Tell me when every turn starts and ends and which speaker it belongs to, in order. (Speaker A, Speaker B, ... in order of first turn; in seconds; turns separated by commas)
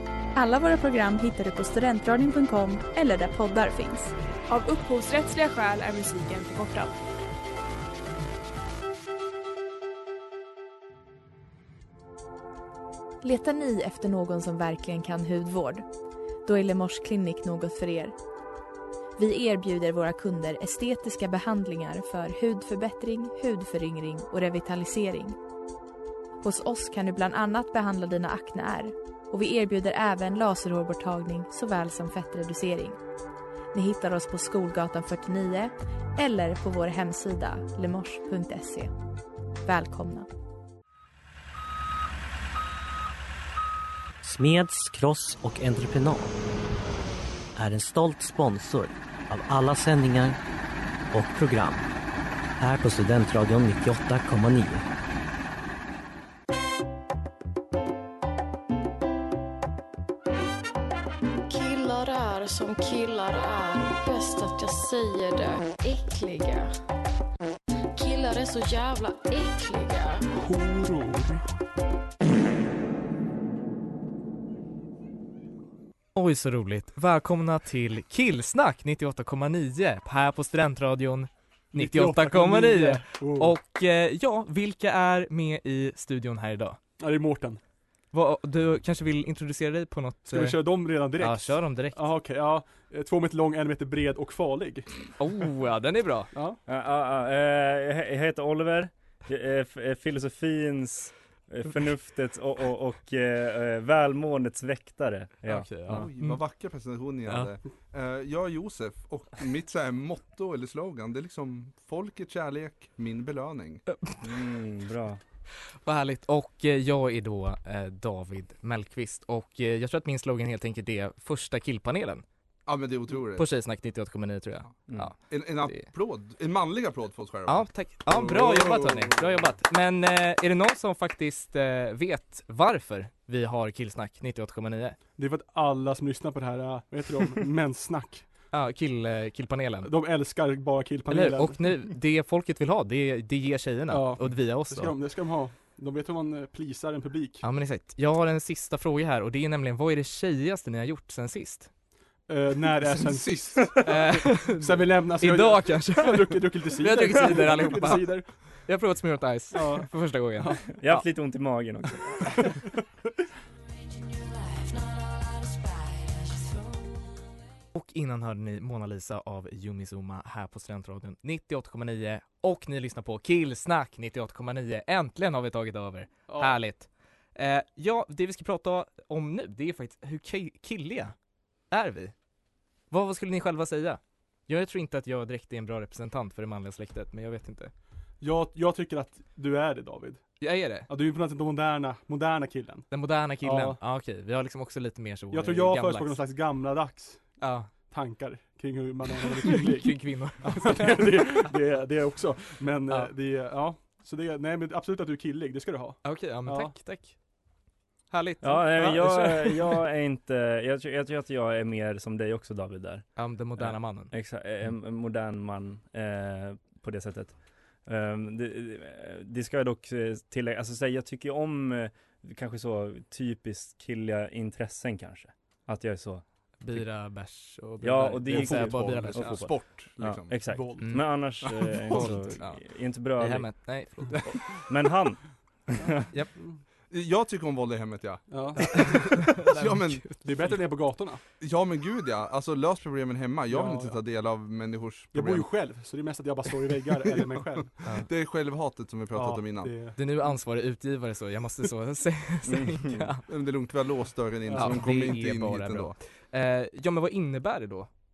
Speaker A: 0.3-4.1, Speaker B: 4.5-6.9, Speaker A: 13.2-15.8, Speaker A: 16.4-18.1, Speaker A: 19.2-25.4, Speaker A: 26.4-33.0, Speaker A: 33.7-38.9, Speaker A: 39.6-40.3, Speaker C: 44.2-46.4, Speaker C: 47.5-50.4, Speaker C: 51.1-51.9, Speaker C: 52.6-54.8, Speaker D: 61.5-66.7, Speaker D: 67.9-70.2, Speaker E: 70.3-71.4, Speaker F: 76.1-86.8, Speaker E: 81.7-83.5, Speaker E: 87.0-87.6, Speaker F: 88.1-90.6, Speaker E: 90.3-94.9, Speaker F: 91.2-92.1, Speaker F: 95.2-96.3, Speaker E: 96.3-96.6, Speaker G: 96.7-106.0, Speaker F: 105.4-106.4, Speaker H: 105.9-113.8, Speaker G: 114.2-115.2, Speaker F: 115.8-122.2, Speaker H: 122.7-123.5, Speaker F: 123.3-125.9, Speaker H: 125.2-129.2, Speaker F: 127.5-135.0, Speaker E: 135.2-138.3, Speaker F: 138.5-139.9, Speaker E: 139.8-141.8, Speaker F: 141.1-144.9, Speaker E: 143.9-147.4, Speaker F: 147.4-151.7, Speaker E: 152.3-158.3, Speaker H: 152.9-153.7, Speaker F: 153.8-161.0, Speaker E: 159.5-160.6, Speaker G: 160.8-162.5, Speaker F: 167.7-181.1, Speaker E: 176.3-176.6, Speaker F: 181.7-182.1, Speaker F: 182.9-187.7, Speaker E: 188.2-190.2, Speaker F: 190.4-190.9, Speaker E: 190.9-192.9, Speaker F: 192.9-196.2, Speaker E: 193.4-193.8, Speaker E: 195.3-206.7, Speaker F: 197.4-197.7, Speaker F: 199.6-201.4, Speaker F: 206.0-207.2, Speaker F: 208.1-209.6, Speaker G: 208.4-226.8, Speaker F: 213.2-214.1, Speaker F: 226.6-229.5, Speaker G: 227.8-233.7, Speaker H: 228.3-230.4, Speaker E: 230.5-230.9, Speaker F: 230.8-234.3, Speaker H: 231.9-232.2, Speaker G: 234.2-236.0, Speaker H: 236.9-240.2, Speaker E: 238.3-239.3, Speaker F: 238.6-240.6, Speaker E: 240.1-241.2, Speaker H: 241.4-245.5, Speaker E: 243.5-244.0, Speaker E: 245.1-247.8, Speaker H: 247.0-249.7, Speaker E: 249.1-250.0, Speaker F: 249.9-253.2, Speaker G: 252.4-253.1, Speaker H: 253.3-255.9, Speaker E: 254.5-254.9, Speaker F: 254.5-257.9